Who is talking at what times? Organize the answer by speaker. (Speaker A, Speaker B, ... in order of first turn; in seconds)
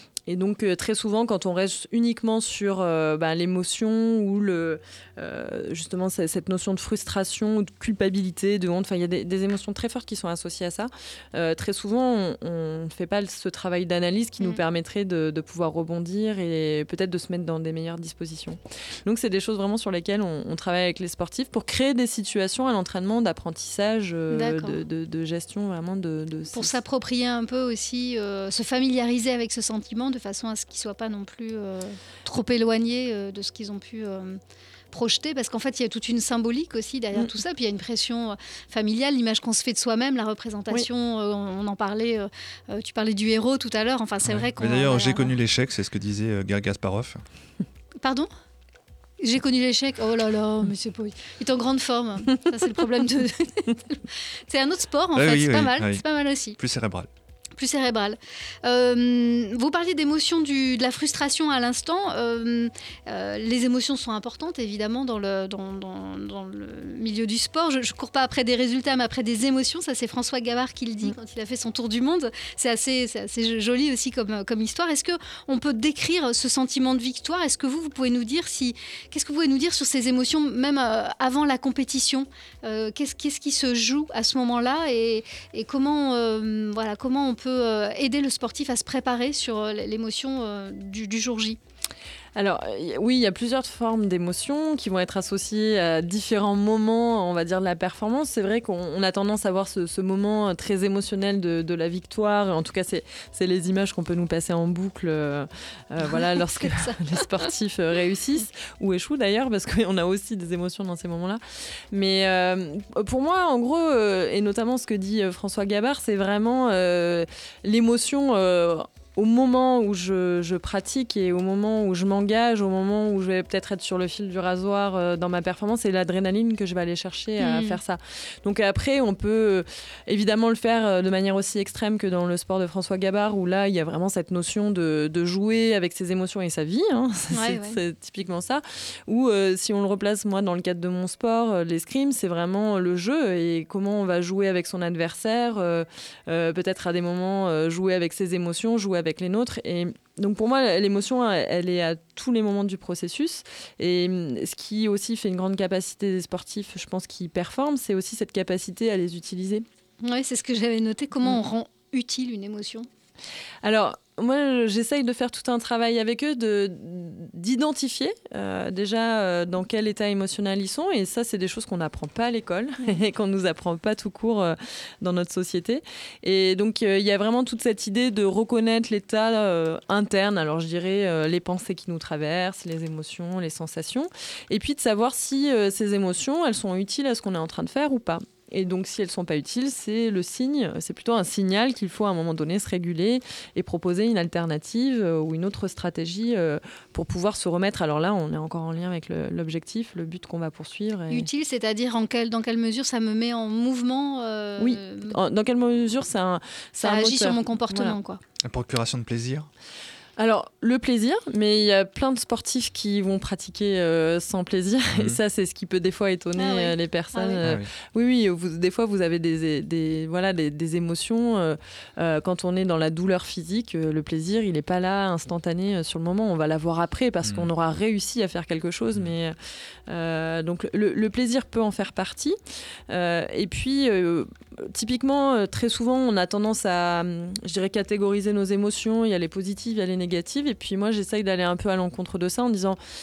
Speaker A: 0.3-26.8, 92.4-111.4, 111.9-159.7, 163.6-201.3, 204.6-208.0, 210.2-229.3, 229.9-232.4, 232.9-242.8
Speaker B: 24.3-24.8, 26.5-34.4, 34.9-45.4, 48.0-48.3, 49.2-56.6, 57.6-91.6, 106.0-107.5, 127.4-127.8, 137.3-137.8, 160.0-162.9, 201.1-205.2, 206.8-208.2, 216.4-217.4
Speaker C: 44.2-47.2, 55.1-56.0, 56.6-57.1, 208.4-209.5, 214.9-215.2, 217.4-217.7, 227.2-227.5